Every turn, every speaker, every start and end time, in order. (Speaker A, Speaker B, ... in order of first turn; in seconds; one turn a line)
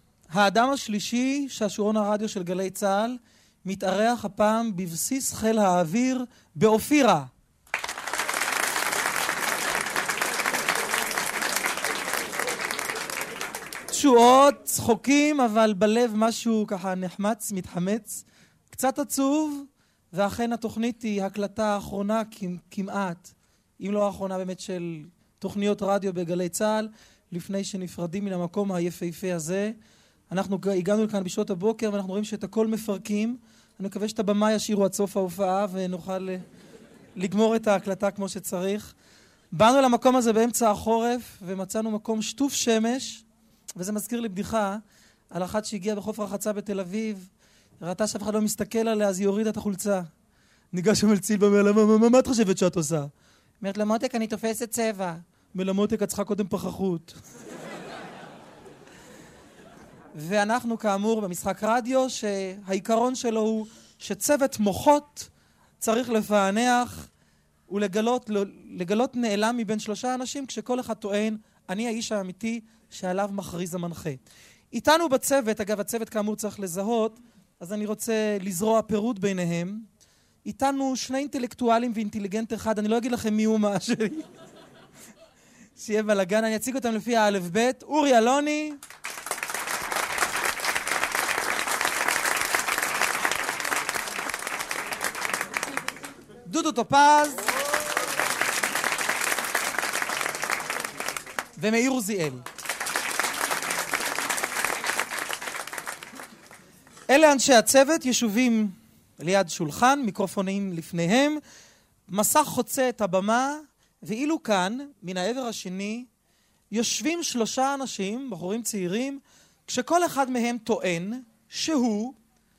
Speaker A: 0.3-7.3
Speaker A: 13.9-29.8
Speaker A: 30.3-36.4
Speaker A: 37.1-38.9
Speaker A: 39.5-43.2
Speaker A: 43.8-47.3
Speaker A: 47.8-50.1
Speaker A: 50.7-57.2
Speaker A: 60.1-65.3
Speaker A: 65.8-67.1
Speaker A: 67.7-74.2
Speaker A: 74.7-79.8
Speaker A: 80.4-84.2
Speaker A: 85.8-88.8
Speaker A: 96.5-97.5
Speaker A: 101.6-102.4
Speaker A: 107.1-111.4
Speaker A: 112.1-116.1
Speaker A: 116.7-122.2